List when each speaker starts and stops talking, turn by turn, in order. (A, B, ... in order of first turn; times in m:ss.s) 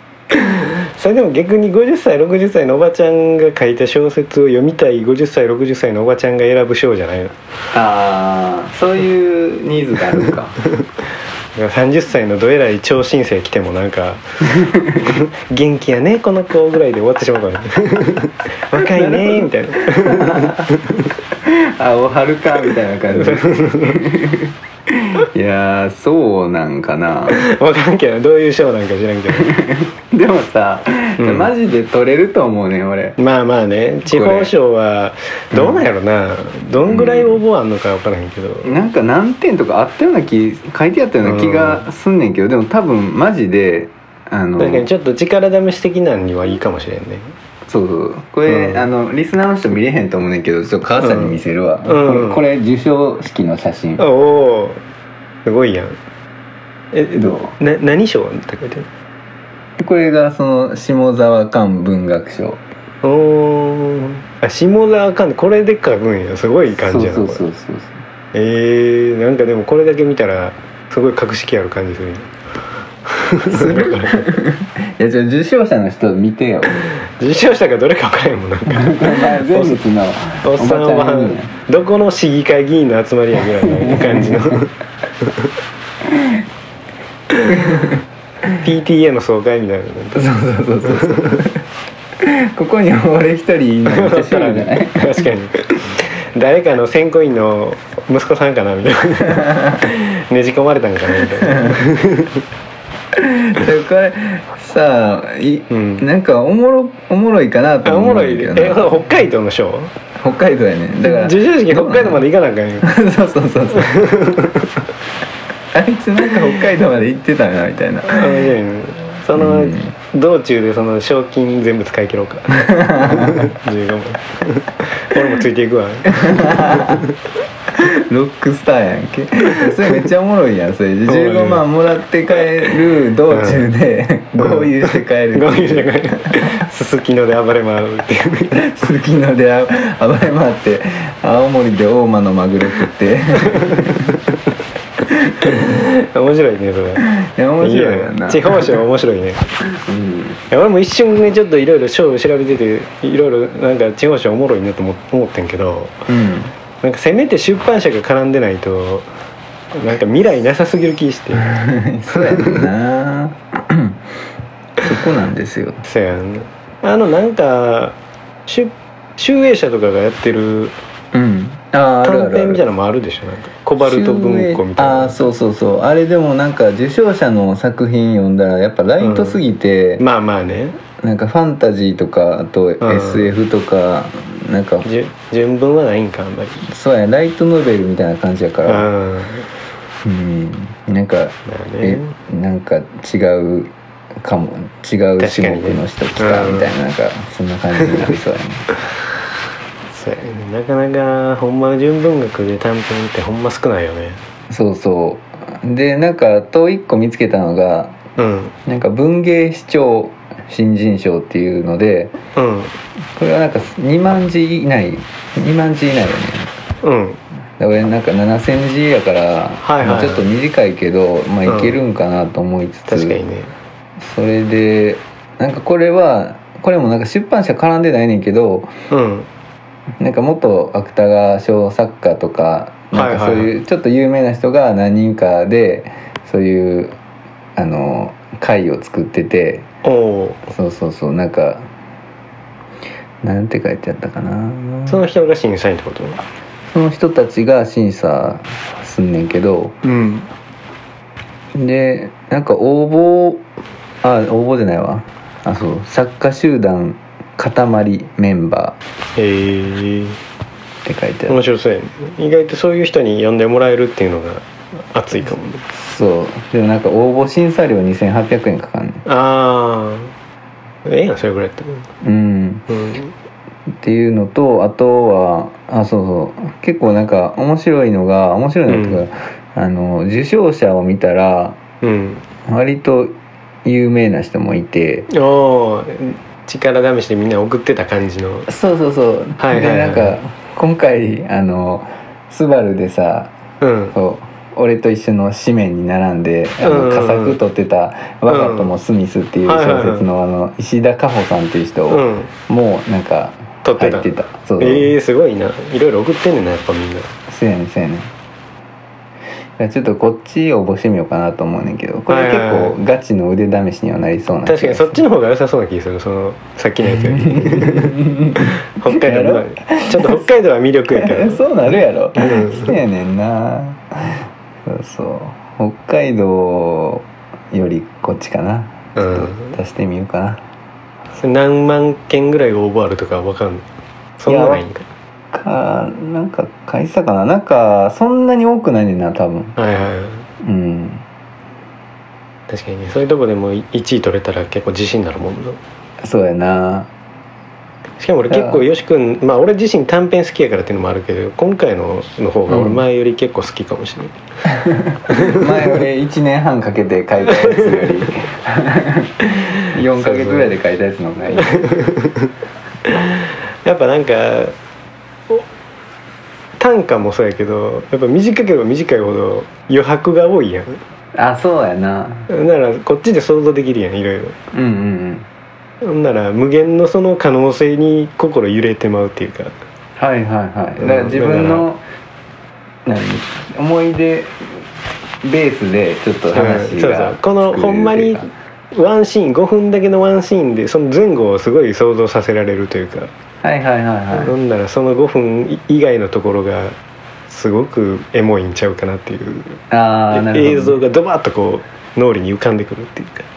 0:00.3-0:07.4 A
0:07.7-0:10.6 B
0:11.6-0:14.2 A
0:14.5-0:15.2 B
0:15.1-0:21.1 A
0:18.8-0:20.7 B
0:21.4-0:27.4 B
0:23.1-0:24.0 A
0:27.3-0:29.5 A
0:29.4-0:33.2 B
0:31.2-0:31.5 A
0:33.2-0:38.8 A
0:34.1-0:34.5 B
0:35.5-0:35.8 B
0:36.8-0:37.4 B
0:38.6-0:44.9 B
0:41.2-0:41.8 A
0:44.6-0:47.3 A
0:47.7-0:54.1 B
0:48.5-0:48.9 A
0:51.0-0:52.4 A
0:54.0-0:54.8 A
0:55.4-0:56.0 A
0:56.9-0:58.9 A
0:57.1-0:57.6 B
0:59.8-1:02.6 B
1:03.0-1:07.4 A
1:06.8-1:08.0 B
1:08.3-1:12.3 A
1:13.1-1:14.3 A
1:13.5-1:16.9 B
1:17.0-1:19.8 A
1:18.7-1:21.5 B
1:20.4-1:24.7 A
1:23.6-1:24.7 B
1:25.2-1:25.5 A
1:26.1-1:26.4 B
1:27.4-1:28.5 B
1:28.6-1:30.2 A
1:30.1-1:31.6 B
1:31.0-1:31.3 A
1:32.2-1:35.2 B
1:33.9-1:42.4 A
1:39.4-1:39.7 B
1:41.4-1:41.8 B
1:43.2-1:49.1 B
1:45.7-1:46.0 A
1:47.8-1:49.9 A
1:50.2-1:52.2 B
1:51.0-1:52.9 A
1:52.8-1:54.1 B
1:53.7-1:54.7 A
1:55.7-1:58.5 B
1:58.1-2:07.1 A
1:59.4-1:59.9 B
2:02.5-2:03.5 B
2:06.1-2:07.1 B
2:07.7-2:16.6 B
2:11.1-2:11.6 A
2:13.3-2:13.7 A
2:14.4-2:18.6 A
2:18.5-2:24.2 B
2:23.5-2:23.9 A
2:25.1-2:25.7 B
2:25.4-2:27.1 A
2:27.1-2:28.8 B
2:27.6-2:29.4 A
2:29.7-2:30.4 B
2:30.5-2:36.0 A
2:36.1-2:36.5 B
2:36.8-2:39.1 A
2:39.7-2:41.6 A
2:41.5-2:44.0 B
2:42.1-2:42.6 A
2:44.8-2:45.8 B
2:45.8-2:50.8 A
2:51.1-2:52.6 B
2:52.0-2:55.3 A
2:53.8-3:00.0 B
2:59.0-2:59.4 A
3:00.0-3:00.8 A
3:01.0-3:04.9 B
3:02.8-3:03.3 A
3:04.8-3:06.6 A
3:06.7-3:08.9 B
3:08.7-3:09.5 A
3:10.0-3:18.7 B
3:11.5-3:12.2 A
3:15.2-3:16.7 A
3:19.9-3:24.2 A
3:24.5-3:28.0 B
3:28.2-3:28.5 A
3:28.7-3:32.2 B
3:32.4-3:32.8 A
3:33.2-3:36.5 B
3:36.8-3:37.2 A
3:37.6-3:43.2 B
3:39.6-3:40.3 A
3:41.5-3:41.8 A
3:42.9-3:43.5 A
3:44.0-3:48.7 B
3:48.9-3:49.3 A
3:50.0-3:57.0 B
3:52.9-3:53.5 A
3:57.6-3:59.7 B
3:59.8-4:00.4 A
4:00.5-4:01.7 B
4:03.2-4:05.0 B
4:04.9-4:06.2 A
4:06.7-4:09.8 B
4:09.8-4:10.3 A
4:11.6-4:13.4 B
4:14.0-4:18.8 B
4:19.2-4:20.2 A
4:20.8-4:21.4 B
4:21.3-4:25.6 A
4:25.7-4:29.0 B
4:29.1-4:30.1 A
4:30.8-4:31.9 A
4:32.0-4:32.7 B
4:32.7-4:33.1 A
4:33.7-4:41.6 B
4:38.7-4:39.0 A
4:41.8-4:42.2 A
4:42.5-4:43.1 B
4:43.6-4:45.1 B
4:45.1-4:48.5 A
4:48.5-4:53.3 B
4:49.4-4:50.2 A
4:53.6-4:53.9 A
4:53.9-5:04.9 B
4:56.6-4:57.4 A
4:58.3-4:58.7 A
4:59.5-5:00.1 A
5:01.9-5:02.3 A
5:03.6-5:07.1 A
5:07.3-5:08.1 B
5:09.6-5:15.0 B
5:12.1-5:12.8 A
5:14.4-5:21.4 A
5:17.0-5:20.2 B
5:20.9-5:30.4 B
5:22.2-5:22.7 A
5:29.0-5:29.5 A
5:31.2-5:33.7 A
5:34.2-5:34.9 A
5:34.3-5:34.6 B
5:35.3-5:39.6 B
5:39.6-5:40.3 A
5:40.4-5:41.0 B
5:42.5-5:45.6 A
5:46.0-5:46.9 B
5:48.0-5:54.1 A
5:48.3-5:48.6 B
5:52.5-5:52.8 B
5:54.5-6:01.7 B
5:55.1-5:55.5 A
5:57.3-5:58.0 A
6:00.0-6:00.5 A
6:01.4-6:02.3 A
6:02.8-6:04.6 A
6:06.6-6:10.8 A
6:11.2-6:12.3 B
6:12.3-6:14.4 A
6:14.5-6:15.3 B
6:15.8-6:19.6 A
6:20.0-6:21.8 B
6:20.8-6:21.7 A
6:22.9-6:24.6 B
6:25.2-6:28.3 B
6:26.3-6:33.1 A
6:33.4-6:34.3 B
6:34.1-6:36.8 A
6:37.3-6:39.6 A
6:39.7-6:40.8 B
6:40.1-6:43.3 A